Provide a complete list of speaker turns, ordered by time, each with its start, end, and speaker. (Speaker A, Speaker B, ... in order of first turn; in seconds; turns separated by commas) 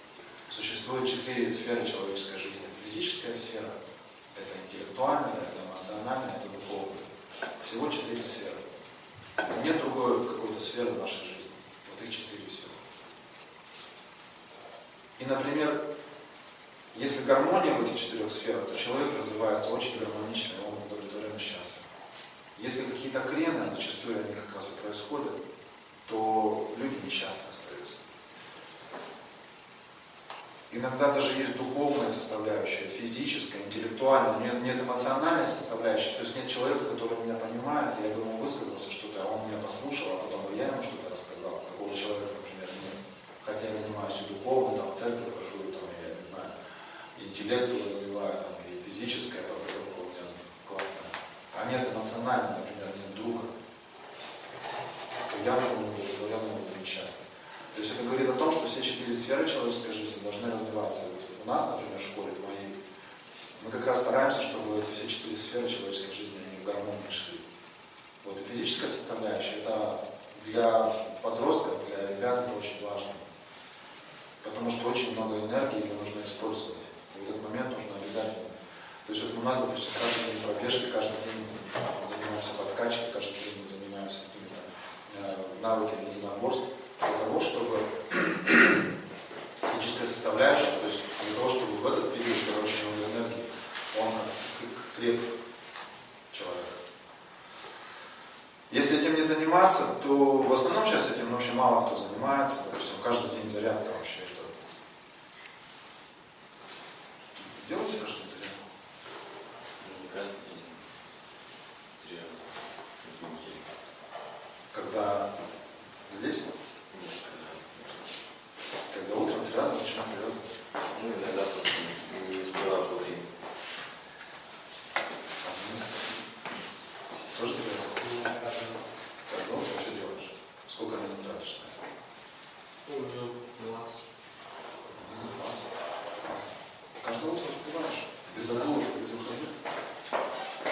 Speaker A: 0.5-3.8, Speaker A: 4.3-7.0, Speaker A: 7.6-8.6, Speaker A: 9.5-12.8, Speaker A: 15.2-15.8, Speaker A: 16.9-21.8, Speaker A: 22.6-25.4, Speaker A: 26.1-28.0, Speaker A: 30.7-46.5, Speaker A: 47.1-53.5, Speaker A: 55.2-62.8, Speaker A: 63.5-67.4, Speaker A: 68.2-73.2, Speaker A: 74.4-78.5, Speaker A: 79.0-88.8, Speaker A: 89.7-95.3, Speaker A: 96.3-96.8, Speaker A: 98.7-104.5, Speaker A: 107.4-108.6, Speaker B: 109.8-110.8, Speaker B: 112.0-113.6, Speaker A: 114.7-115.3, Speaker A: 116.1-116.5, Speaker B: 116.9-117.8, Speaker A: 118.9-120.5, Speaker B: 120.9-123.3, Speaker A: 125.4-126.1, Speaker A: 127.3-128.1, Speaker C: 128.0-128.8, Speaker A: 129.3-131.8, Speaker C: 132.8-134.0, Speaker A: 134.9-139.5, Speaker C: 138.3-138.7